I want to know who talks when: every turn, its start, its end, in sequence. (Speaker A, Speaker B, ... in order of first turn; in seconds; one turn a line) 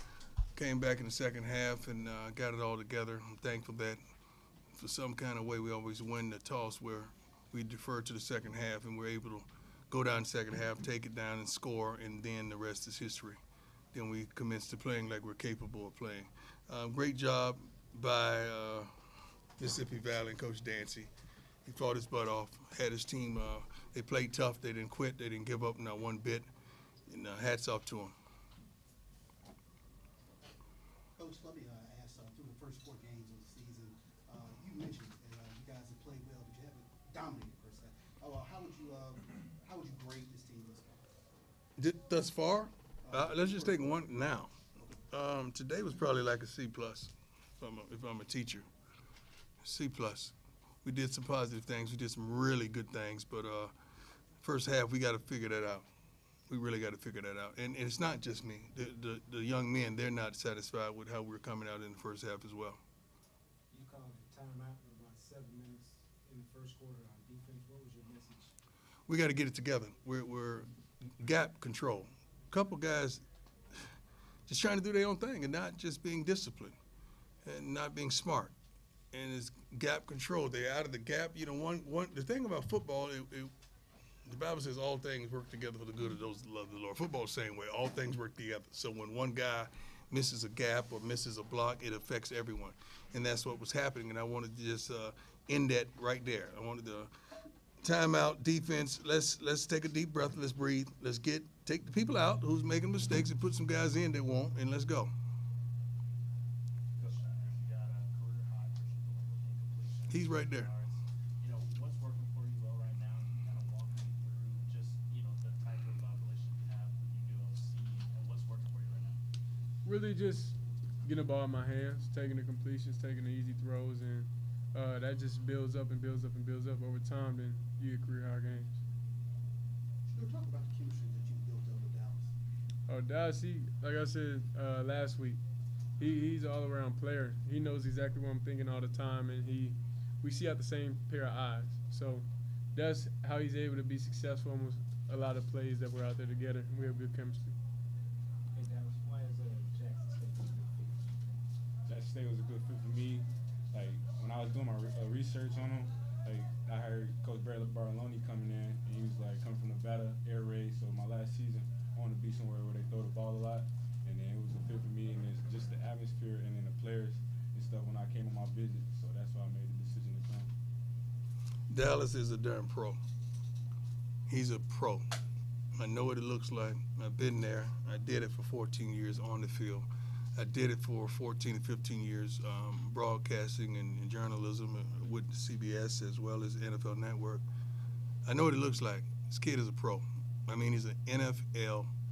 Speaker A: 0.5-4.0
Speaker A: 4.8-13.4
Speaker A: 13.9-18.9
Speaker A: 19.6-21.1
Speaker A: 21.6-26.5
Speaker A: 27.1-28.1
Speaker B: 31.1-41.0
Speaker A: 41.8-44.6
Speaker B: 43.0-43.8
Speaker A: 45.1-48.7
Speaker A: 49.6-53.7
Speaker A: 54.4-55.9
Speaker A: 56.5-62.8
Speaker C: 63.7-68.5
Speaker A: 69.1-73.2
Speaker A: 74.5-76.8
Speaker A: 77.4-78.5
Speaker A: 79.1-83.5
Speaker A: 84.2-97.1
Speaker A: 97.8-105.1
Speaker D: 107.0-119.2
Speaker A: 110.1-110.7
Speaker E: 119.8-128.8
Speaker B: 130.1-132.3
Speaker E: 132.9-135.4
Speaker E: 136.0-147.6
Speaker C: 148.5-151.4
Speaker F: 151.9-170.5
Speaker A: 171.7-173.0
Speaker A: 174.3-175.1
Speaker A: 175.7-187.4
Speaker A: 188.2-191.9